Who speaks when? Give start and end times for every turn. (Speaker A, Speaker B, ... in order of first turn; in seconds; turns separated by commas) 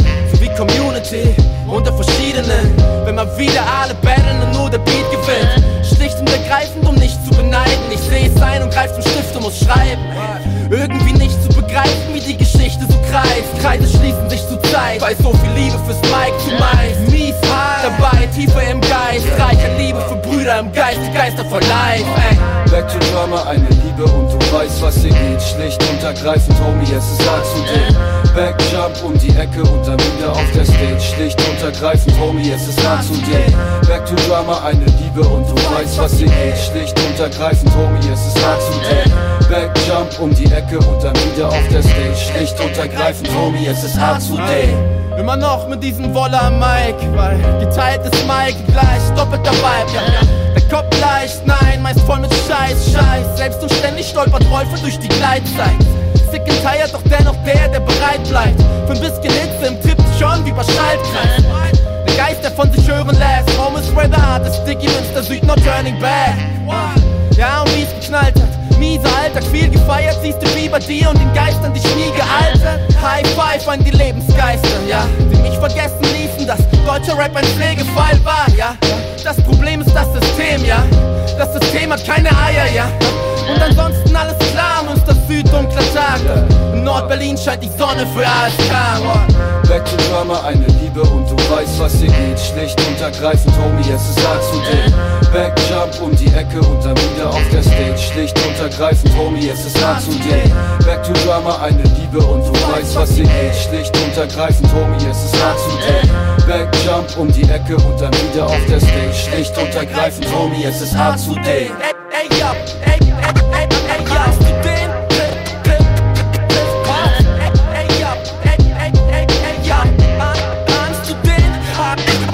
Speaker A: 0.2-22.5, Speaker B: 21.9-44.8, Speaker A: 32.8-33.5, Speaker A: 35.6-36.7, Speaker A: 42.4-43.2, Speaker A: 44.1-89.3, Speaker B: 86.1-87.1, Speaker B: 89.6-111.8, Speaker A: 99.8-100.5, Speaker A: 102.5-103.6, Speaker A: 109.4-115.1, Speaker B: 114.1-115.0, Speaker A: 116.6-122.1